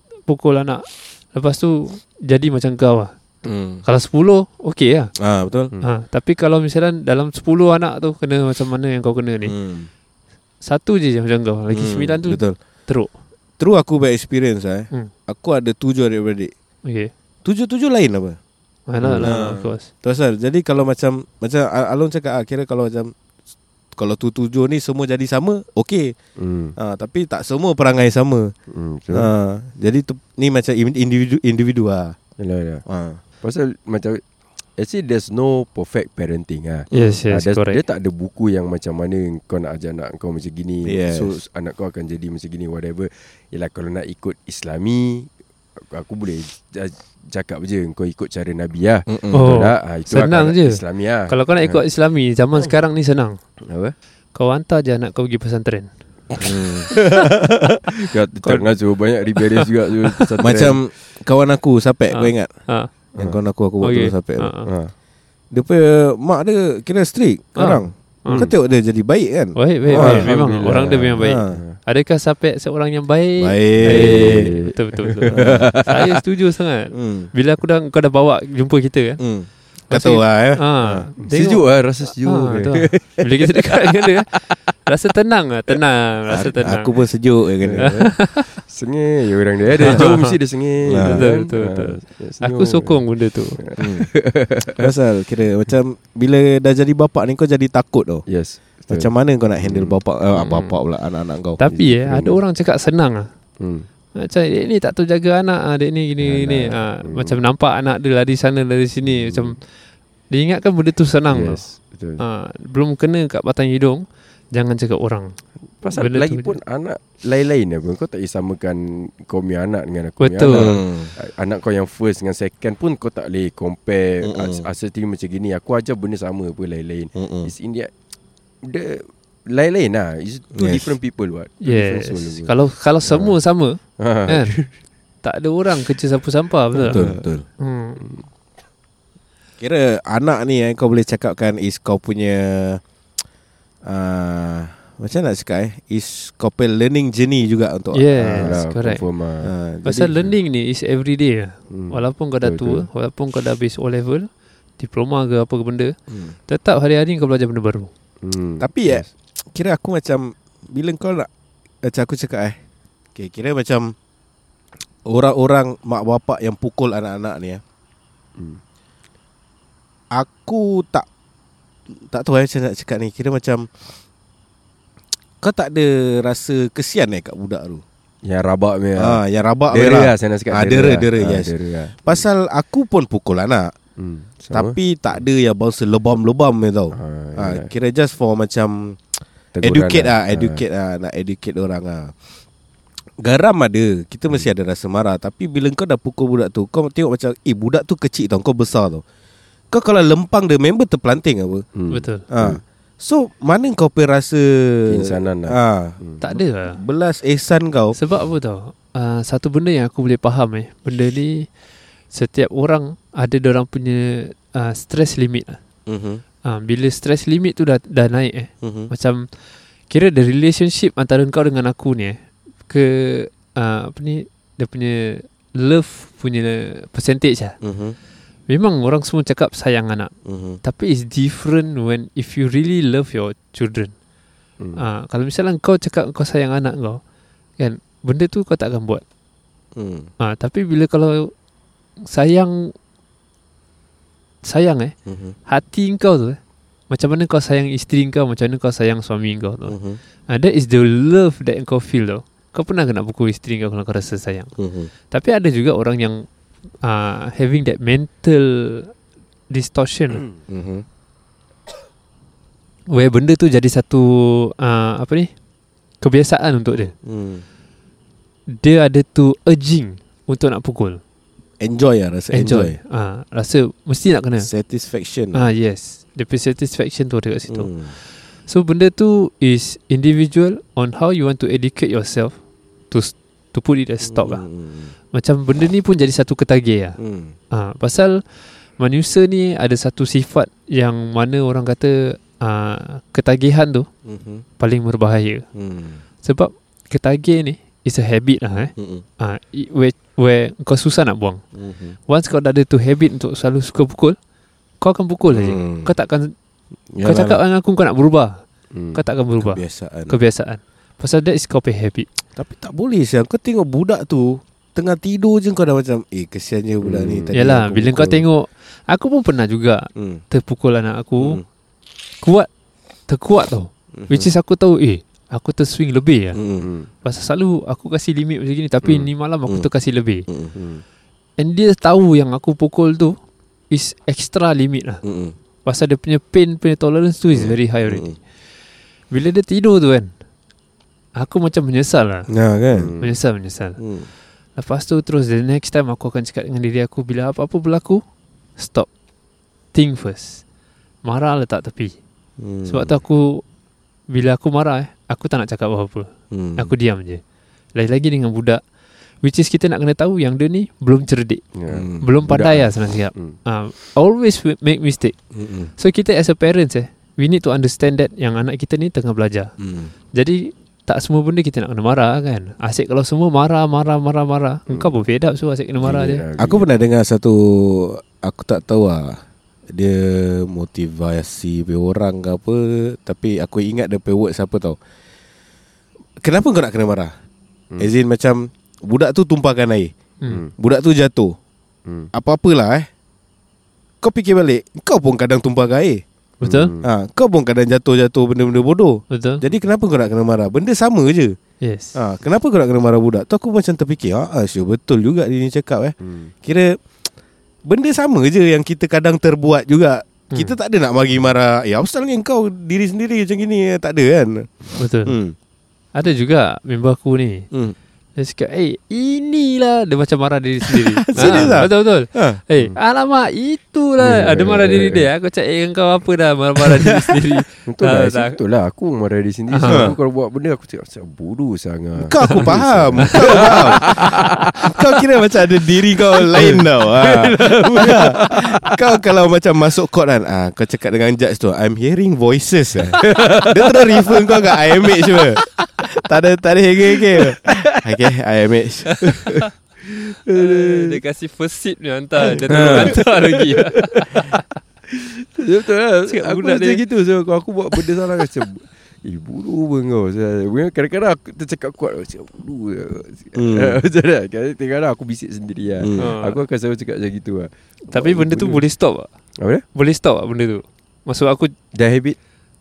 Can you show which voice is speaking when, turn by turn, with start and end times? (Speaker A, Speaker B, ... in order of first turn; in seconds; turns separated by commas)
Speaker A: 0.3-3.1, Speaker B: 3.5-3.8, Speaker A: 3.8-5.1, Speaker B: 5.2-5.7, Speaker A: 5.8-9.6, Speaker B: 9.5-9.9, Speaker A: 10.6-13.1, Speaker B: 11.7-12.6, Speaker B: 13.6-16.5, Speaker A: 16.9-17.1, Speaker B: 17.4-18.4, Speaker A: 18.9-19.9, Speaker C: 19.0-19.4, Speaker B: 19.2-23.1, Speaker B: 24.0-26.1, Speaker C: 26.4-26.8, Speaker B: 26.8-28.5, Speaker C: 28.7-29.3, Speaker B: 29.1-32.2, Speaker C: 32.4-32.8, Speaker B: 32.9-33.2, Speaker C: 33.4-34.2, Speaker C: 34.8-51.8, Speaker A: 36.9-37.8, Speaker B: 36.9-37.2, Speaker B: 40.9-41.3, Speaker B: 49.1-49.6, Speaker A: 49.3-53.4, Speaker C: 53.7-54.0, Speaker A: 54.4-55.9, Speaker B: 56.4-57.6, Speaker C: 58.0-60.8, Speaker A: 58.4-58.7, Speaker A: 59.4-60.4, Speaker B: 60.4-62.5, Speaker A: 62.1-62.9, Speaker B: 63.2-64.5, Speaker A: 63.8-64.7, Speaker C: 64.7-64.9, Speaker B: 65.5-71.6, Speaker A: 67.6-68.5, Speaker A: 69.6-79.2, Speaker C: 69.9-71.8, Speaker B: 73.4-74.5, Speaker C: 73.8-76.1, Speaker B: 75.3-75.7, Speaker B: 76.9-77.3, Speaker B: 79.2-81.0, Speaker A: 79.9-87.0, Speaker C: 81.2-84.2, Speaker B: 86.3-88.1, Speaker C: 87.7-93.0, Speaker A: 87.8-88.5, Speaker A: 89.8-93.6, Speaker B: 89.8-90.1, Speaker B: 90.9-91.3, Speaker C: 93.6-94.9, Speaker B: 93.8-94.1, Speaker B: 94.7-98.2, Speaker C: 98.3-100.0, Speaker B: 98.9-101.6, Speaker A: 100.3-100.8, Speaker A: 101.6-103.3, Speaker C: 101.7-102.4, Speaker C: 103.6-103.9, Speaker A: 104.2-109.6, Speaker C: 106.2-107.4, Speaker C: 109.0-109.6, Speaker A: 110.3-111.6, Speaker C: 111.3-112.2, Speaker A: 112.2-115.4, Speaker C: 115.8-127.9, Speaker A: 115.9-116.6, Speaker A: 120.2-120.8, Speaker B: 120.5-121.1, Speaker B: 124.2-124.7, Speaker B: 127.2-127.5, Speaker C: 128.7-132.5, Speaker B: 130.5-130.9, Speaker A: 131.6-134.6, Speaker C: 133.1-133.3, Speaker C: 134.0-134.7, Speaker A: 135.2-138.0, Speaker C: 136.8-137.4, Speaker B: 136.8-137.4, Speaker C: 138.0-138.3, Speaker B: 139.6-142.8, Speaker B: 143.9-148.6, Speaker A: 147.9-149.1, Speaker C: 148.2-149.5, Speaker B: 149.4-150.2, Speaker A: 149.8-154.3, Speaker C: 151.7-152.9, Speaker A: 154.8-155.9, Speaker A: 156.5-157.9, Speaker C: 158.2-159.1, Speaker B: 158.6-161.3, Speaker B: 161.8-162.6, Speaker B: 163.2-163.9, Speaker B: 165.1-167.6, Speaker B: 170.2-171.1, Speaker B: 172.1-173.9, Speaker B: 175.4-177.8, Speaker C: 178.2-182.2, Speaker B: 179.0-183.7, Speaker C: 184.0-184.8, Speaker B: 184.5-189.0, Speaker C: 186.9-187.7, Speaker C: 189.5-190.6, Speaker B: 189.6-192.1, Speaker B: 193.2-199.0, Speaker B: 199.7-201.7, Speaker C: 201.8-202.6, Speaker A: 201.9-202.3, Speaker B: 202.3-208.0, Speaker C: 204.9-206.2, Speaker A: 206.2-206.8, Speaker A: 207.9-211.5, Speaker A: 212.1-215.6, Speaker B: 215.9-216.2, Speaker A: 216.4-219.3, Speaker B: 218.6-218.9, Speaker A: 219.9-222.2, Speaker A: 222.7-227.6, Speaker B: 227.6-228.0, Speaker A: 228.5-230.1, Speaker B: 230.3-230.6, Speaker A: 230.6-233.9, Speaker A: 234.8-237.0, Speaker A: 237.6-239.0, Speaker B: 239.8-240.1, Speaker A: 240.2-241.3, Speaker A: 242.1-242.7, Speaker A: 244.4-244.9, Speaker B: 245.1-245.4, Speaker A: 245.5-246.4, Speaker A: 246.9-249.8, Speaker B: 249.7-250.0, Speaker A: 250.3-254.5, Speaker B: 254.6-254.9, Speaker A: 255.1-256.3, Speaker A: 256.8-258.9, Speaker A: 259.5-260.2, Speaker B: 260.5-260.8, Speaker A: 262.9-265.3, Speaker A: 266.0-266.9, Speaker B: 267.0-267.4, Speaker A: 268.6-271.0, Speaker B: 271.6-272.8, Speaker A: 272.3-274.5, Speaker B: 274.4-275.4, Speaker A: 275.3-282.3, Speaker B: 277.5-277.9, Speaker A: 282.9-284.4, Speaker B: 284.1-284.9, Speaker A: 285.1-287.0, Speaker B: 287.0-287.4, Speaker A: 287.5-293.9, Speaker B: 294.1-294.4, Speaker A: 294.6-295.4, Speaker B: 295.6-296.0, Speaker A: 296.2-301.4, Speaker B: 298.8-299.1, Speaker B: 301.6-302.0, Speaker A: 302.1-304.2, Speaker A: 304.8-306.3, Speaker B: 305.3-305.9, Speaker B: 306.9-307.4, Speaker A: 307.0-308.4, Speaker C: 308.7-309.0, Speaker A: 308.9-312.1, Speaker B: 309.4-310.2, Speaker B: 312.4-318.2, Speaker C: 316.8-317.3, Speaker A: 317.3-321.4, Speaker B: 320.0-320.2, Speaker A: 322.2-322.5, Speaker A: 323.1-326.4, Speaker B: 324.0-324.3, Speaker B: 326.4-326.7, Speaker C: 326.6-326.9, Speaker A: 327.0-330.3, Speaker C: 328.8-329.1, Speaker B: 330.3-330.5, Speaker C: 330.6-330.8, Speaker A: 331.4-333.2, Speaker A: 333.7-335.0, Speaker B: 335.0-335.3, Speaker A: 335.6-338.1, Speaker B: 337.9-338.2, Speaker A: 339.1-340.1, Speaker A: 341.2-342.3, Speaker B: 342.3-342.9, Speaker C: 342.7-343.2, Speaker A: 343.0-343.8, Speaker B: 343.8-344.1, Speaker A: 344.6-348.0, Speaker A: 348.6-348.9, Speaker A: 349.7-350.4, Speaker A: 351.1-351.9, Speaker B: 352.4-353.0, Speaker A: 352.7-353.4, Speaker A: 354.1-357.2, Speaker B: 356.3-356.7, Speaker A: 357.8-358.6, Speaker A: 359.2-361.4, Speaker C: 361.5-361.9, Speaker B: 361.7-362.7, Speaker A: 362.0-365.1, Speaker B: 365.4-365.7, Speaker A: 365.8-369.5, Speaker B: 369.6-369.9, Speaker A: 370.1-376.2, Speaker C: 374.7-374.9, Speaker C: 375.8-376.7, Speaker B: 376.4-379.2, Speaker B: 379.7-384.8, Speaker B: 386.2-387.1, Speaker B: 387.8-389.9, Speaker B: 390.6-391.4, Speaker B: 392.1-392.9, Speaker B: 394.0-396.0, Speaker A: 396.4-396.7, Speaker C: 396.4-396.9, Speaker B: 396.8-401.4, Speaker A: 399.1-399.4, Speaker A: 401.6-401.9, Speaker B: 401.9-406.8, Speaker C: 406.0-406.3, Speaker B: 407.7-415.4, Speaker A: 414.8-415.1, Speaker A: 415.9-417.5, Speaker A: 418.2-428.4, Speaker B: 420.9-422.4, Speaker C: 421.1-421.6, Speaker C: 424.0-425.1, Speaker C: 427.7-434.9, Speaker A: 429.5-429.9, Speaker B: 429.7-429.9, Speaker B: 432.0-449.0, Speaker C: 436.3-438.7, Speaker C: 443.0-445.7, Speaker C: 447.1-447.9, Speaker C: 449.0-451.0, Speaker A: 450.3-454.4, Speaker B: 452.5-452.9, Speaker C: 452.5-468.6, Speaker A: 456.1-456.8, Speaker B: 463.4-463.8, Speaker B: 465.8-466.1, Speaker A: 466.0-466.4, Speaker A: 467.9-469.1, Speaker A: 469.8-471.5, Speaker C: 471.7-472.2